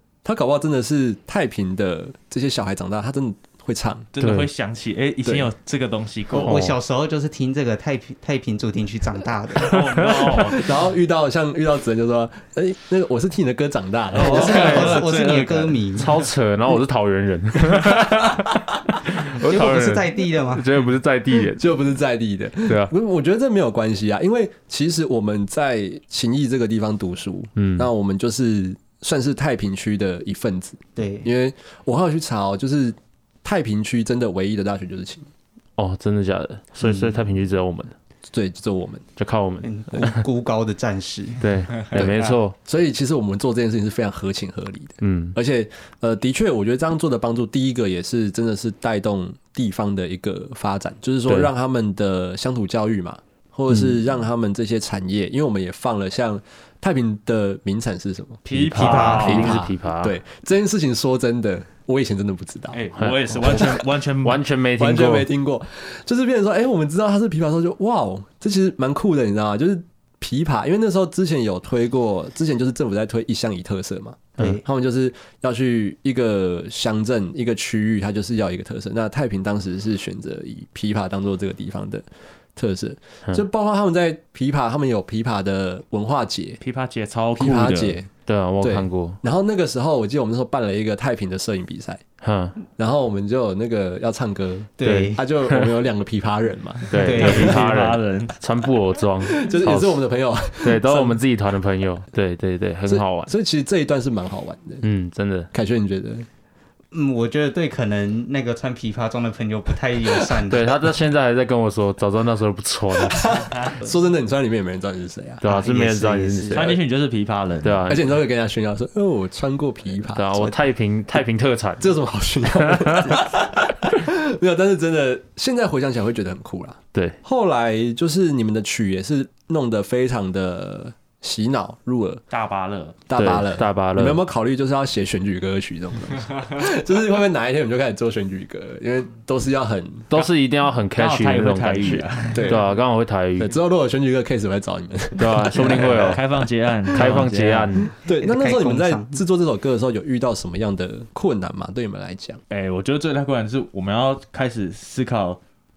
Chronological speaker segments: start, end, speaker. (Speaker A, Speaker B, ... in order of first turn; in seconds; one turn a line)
Speaker A: 0.2-4.1
Speaker B: 4.1-6.6
Speaker C: 4.2-4.5
Speaker A: 5.2-5.5
Speaker D: 6.3-10.1
Speaker C: 6.4-6.8
Speaker B: 9.6-10.8
Speaker A: 10.4-15.0
Speaker B: 14.1-15.9
Speaker D: 14.2-16.1
Speaker C: 14.5-14.9
Speaker C: 16.0-21.7
Speaker D: 19.4-20.7
Speaker A: 21.5-35.3
Speaker C: 22.7-22.9
Speaker C: 27.6-27.9
Speaker D: 31.0-31.3
Speaker C: 35.8-38.0
Speaker D: 36.8-37.1
Speaker A: 38.3-39.1
Speaker C: 39.2-40.2
Speaker D: 39.6-41.4
Speaker C: 41.4-42.5
Speaker A: 41.9-62.8
Speaker C: 45.0-45.4
Speaker B: 58.5-59.6
Speaker C: 58.5-60.2
Speaker D: 58.8-59.4
Speaker B: 62.7-64.5
Speaker C: 63.0-65.3
Speaker A: 63.4-63.8
Speaker A: 64.8-86.6
Speaker D: 74.4-74.6
Speaker B: 86.6-88.0
Speaker A: 87.4-88.1
Speaker C: 88.2-89.2
Speaker A: 88.6-92.0
Speaker C: 92.2-92.6
Speaker A: 92.8-97.1
Speaker D: 94.8-95.2
Speaker C: 94.8-95.7
Speaker C: 96.9-100.0
Speaker B: 97.0-98.4
Speaker D: 97.0-97.6
Speaker A: 99.2-101.2
Speaker C: 100.6-103.3
Speaker A: 102.9-104.8
Speaker C: 104.8-105.5
Speaker A: 105.5-106.3
Speaker D: 106.9-110.7
Speaker C: 110.5-113.7
Speaker A: 113.0-115.4
Speaker C: 115.4-116.8
Speaker D: 115.4-116.7
Speaker B: 116.5-118.0
Speaker C: 117.6-118.0
Speaker A: 117.9-120.6
Speaker C: 120.1-121.9
Speaker A: 121.8-132.2
Speaker C: 122.6-123.2
Speaker B: 132.3-133.0
Speaker A: 133.1-140.1
Speaker C: 133.2-134.2
Speaker C: 140.1-143.6
Speaker B: 141.0-142.7
Speaker A: 142.3-142.7
Speaker A: 143.4-146.2
Speaker C: 145.2-146.2
Speaker B: 145.5-147.9
Speaker C: 146.9-147.9
Speaker A: 146.9-147.2
Speaker A: 147.9-152.4
Speaker D: 148.2-149.2
Speaker B: 152.5-155.4